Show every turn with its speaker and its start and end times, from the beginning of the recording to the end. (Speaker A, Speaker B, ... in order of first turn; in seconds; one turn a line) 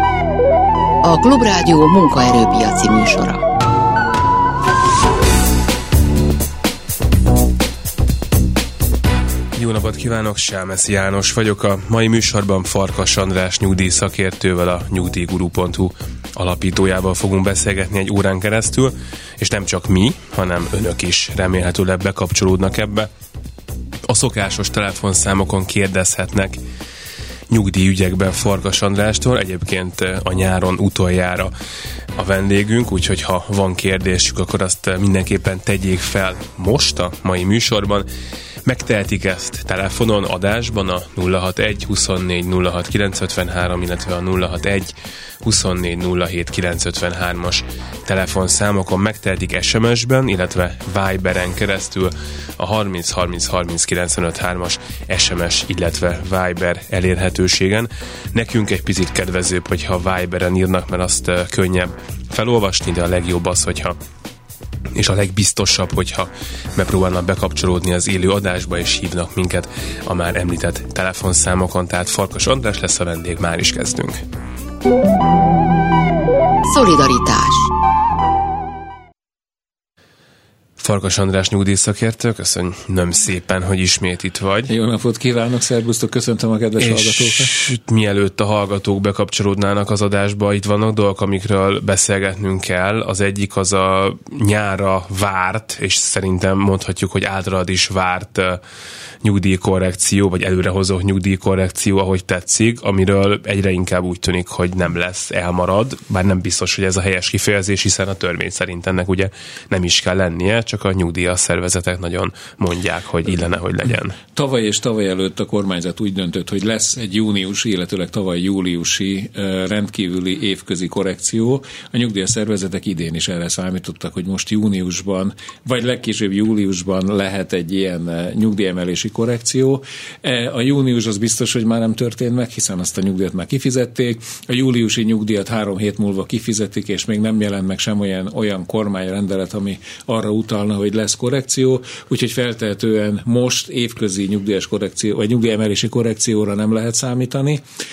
Speaker A: 1.0-3.4
Speaker B: 9.6-23.1
Speaker B: 24.1-26.6
Speaker B: 27.5-31.5
Speaker B: 32.2-38.1
Speaker B: 38.6-64.0
Speaker B: 65.0-74.2
Speaker A: 76.7-77.7
Speaker B: 80.8-84.7
Speaker C: 84.7-87.5
Speaker B: 86.8-98.6
Speaker B: 99.2-114.2
Speaker C: 114.3-147.6